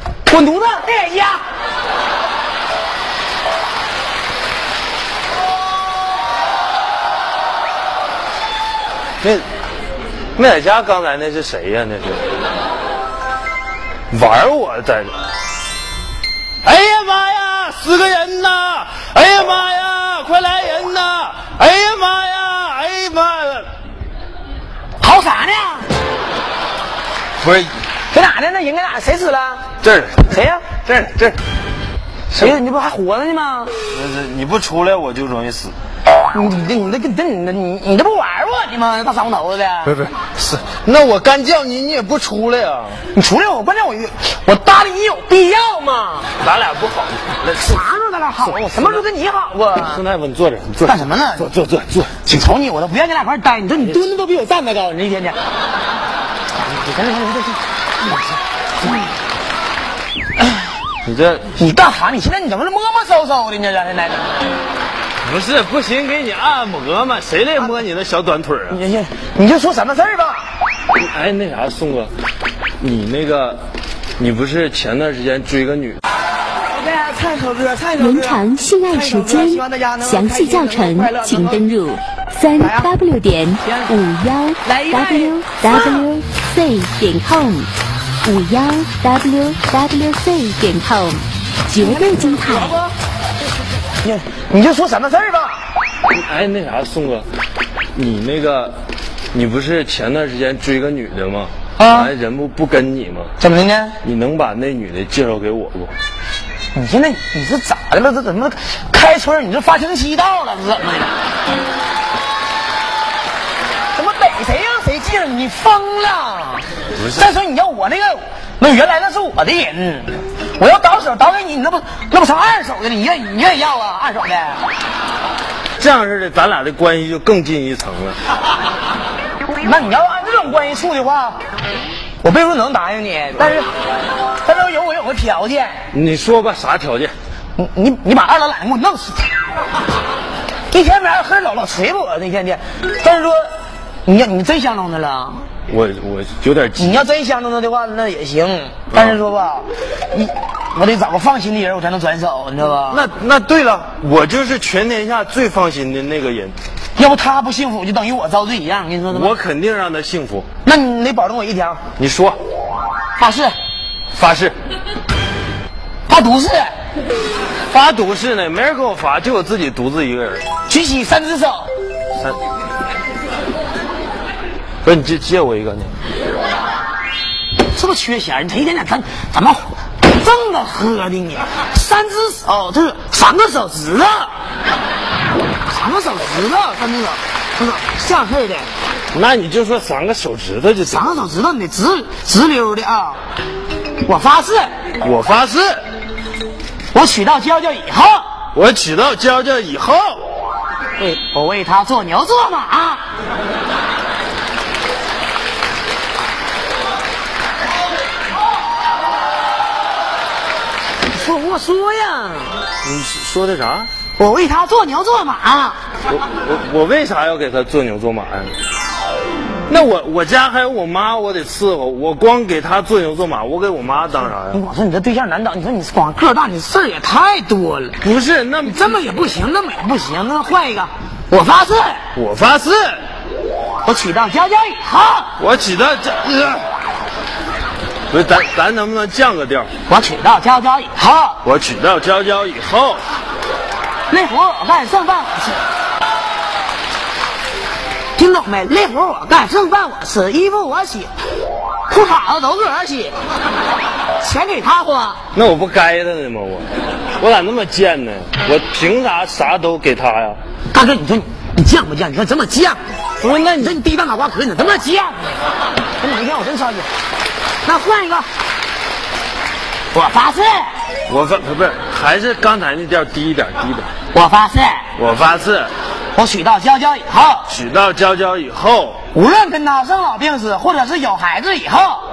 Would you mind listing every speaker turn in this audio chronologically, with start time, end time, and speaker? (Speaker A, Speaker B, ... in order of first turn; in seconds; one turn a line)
Speaker A: 0.3-1.4
Speaker B: 10.3-12.2
Speaker B: 14.1-15.1
Speaker B: 16.6-23.7
Speaker A: 25.0-25.9
Speaker B: 27.4-27.7
Speaker A: 28.1-29.6
Speaker B: 29.8-30.3
Speaker A: 30.3-30.8
Speaker B: 30.8-31.4
Speaker A: 32.3-33.7
Speaker B: 33.9-35.7
Speaker A: 36.3-40.0
Speaker B: 39.9-43.0
Speaker A: 43.1-46.3
Speaker B: 46.4-47.8
Speaker A: 47.5-50.0
Speaker B: 48.4-49.0
Speaker B: 49.8-52.2
Speaker A: 50.8-51.5
Speaker A: 52.2-55.4
Speaker A: 56.6-57.6
Speaker B: 61.0-61.5
Speaker A: 61.6-64.3
Speaker B: 65.2-68.8
Speaker A: 68.7-70.4
Speaker B: 70.9-72.1
Speaker B: 72.8-73.6
Speaker B: 74.2-76.0
Speaker A: 76.7-78.4
Speaker C: 77.9-87.7
Speaker A: 78.9-81.5
Speaker A: 84.7-85.1
Speaker C: 88.2-92.8
Speaker A: 94.0-95.6
Speaker B: 96.1-97.3
Speaker B: 97.9-98.8
Speaker B: 99.3-103.3
Speaker A: 101.8-102.1
Speaker A: 103.4-104.0
Speaker B: 104.0-105.9
Speaker A: 106.7-111.2
Speaker A: 113.9-124.6
Speaker B: 117.0-117.3
Speaker B: 125.8-128.2
Speaker A: 129.6-131.4
Speaker A: 132.2-133.7
Speaker A: 134.4-135.8
Speaker B: 135.9-137.1
Speaker A: 137.6-139.3
Speaker A: 140.7-143.4
Speaker A: 144.1-145.5
Speaker B: 145.7-147.1
Speaker A: 146.8-153.1
Speaker B: 148.9-149.2
Speaker B: 152.9-156.6
Speaker A: 157.0-159.3
Speaker B: 159.1-160.5
Speaker A: 160.6-161.8
Speaker B: 162.0-162.4
Speaker A: 163.2-163.5
Speaker B: 164.1-164.5
Speaker A: 166.1-166.7
Speaker B: 167.7-170.4
Speaker A: 170.7-171.7
Speaker B: 174.8-175.9
Speaker A: 177.7-184.3
Speaker A: 185.7-188.7
Speaker B: 189.1-191.2
Speaker A: 190.8-193.2
Speaker A: 194.0-194.7
Speaker B: 195.0-195.8
Speaker A: 196.9-198.3
Speaker B: 198.5-200.2
Speaker A: 201.0-203.0
Speaker A: 211.1-212.6
Speaker B: 212.8-213.9
Speaker A: 214.2-215.8
Speaker B: 216.1-218.5
Speaker B: 219.7-224.6
Speaker A: 224.5-228.0
Speaker B: 228.0-229.4
Speaker A: 228.6-232.0
Speaker B: 232.1-233.0
Speaker A: 233.8-235.3
Speaker B: 235.4-236.7
Speaker B: 238.1-239.7
Speaker A: 239.9-241.4
Speaker B: 241.4-243.0
Speaker A: 244.1-245.6
Speaker A: 248.2-251.1
Speaker A: 251.9-253.1
Speaker A: 254.2-255.2
Speaker B: 255.3-256.7
Speaker B: 257.2-260.4
Speaker A: 260.7-262.8
Speaker B: 263.2-263.8
Speaker A: 263.6-265.4
Speaker A: 266.0-266.9
Speaker A: 267.6-268.3
Speaker A: 269.9-270.7
Speaker B: 271.1-273.9
Speaker A: 274.1-274.9
Speaker B: 274.9-275.7
Speaker A: 276.1-277.5
Speaker B: 277.5-279.0
Speaker A: 279.1-282.0